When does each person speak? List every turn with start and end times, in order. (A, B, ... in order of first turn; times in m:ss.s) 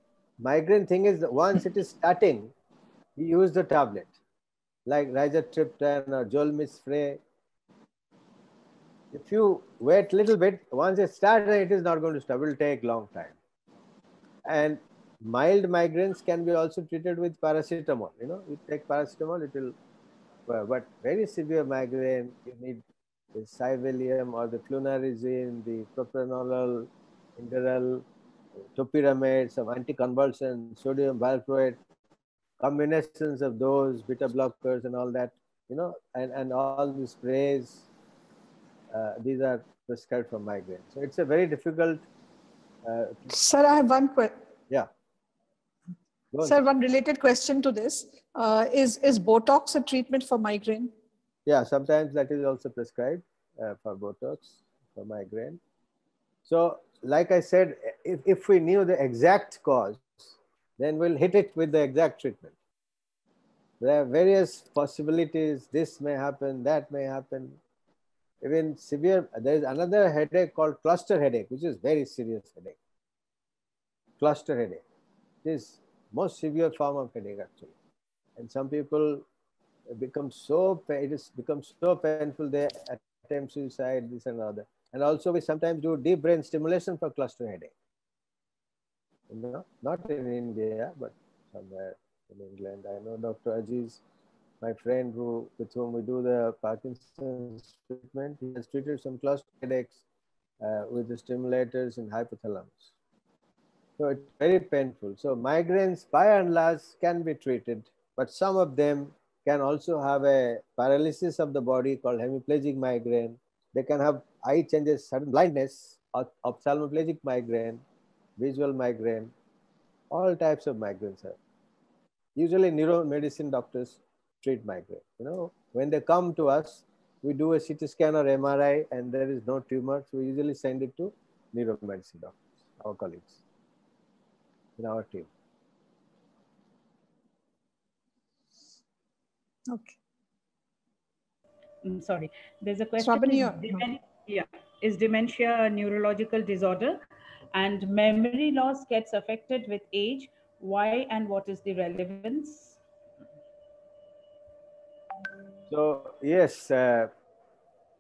0:00.4-0:02.5 A
0:03.2-0:04.1 A
0:04.9-0:07.2 A
0:09.1-0:13.4 A
0:14.4-0:19.8 A
0:20.5-0:28.0 A
0:28.8-0:31.8 A
0:32.6-0:37.9 A
0:38.9-0:42.0 A
0:42.8-0:43.3 A
0:43.3-0:44.3 B
0:46.3-0:46.6 A
0:46.4-0:50.9 B
0:51.5-0:55.6 A
0:56.5-1:02.5 A
1:03.8-1:07.6 A
1:08.4-1:12.8 A
1:14.2-1:14.8 A
1:15.4-1:17.7 A
1:18.4-1:19.2 A
1:19.9-1:27.7 A
1:29.3-1:34.0 A
1:34.6-1:40.0 A
1:40.6-1:42.9 A
1:44.0-1:57.8 A
1:58.4-1:59.3 A
2:00.1-2:01.4 A
2:02.4-2:13.4 A
2:14.8-2:15.3 A
2:19.7-2:20.0 B
2:21.8-2:27.0 C
2:23.0-2:23.9 B
2:27.5-2:32.8 C
2:35.7-2:37.1 A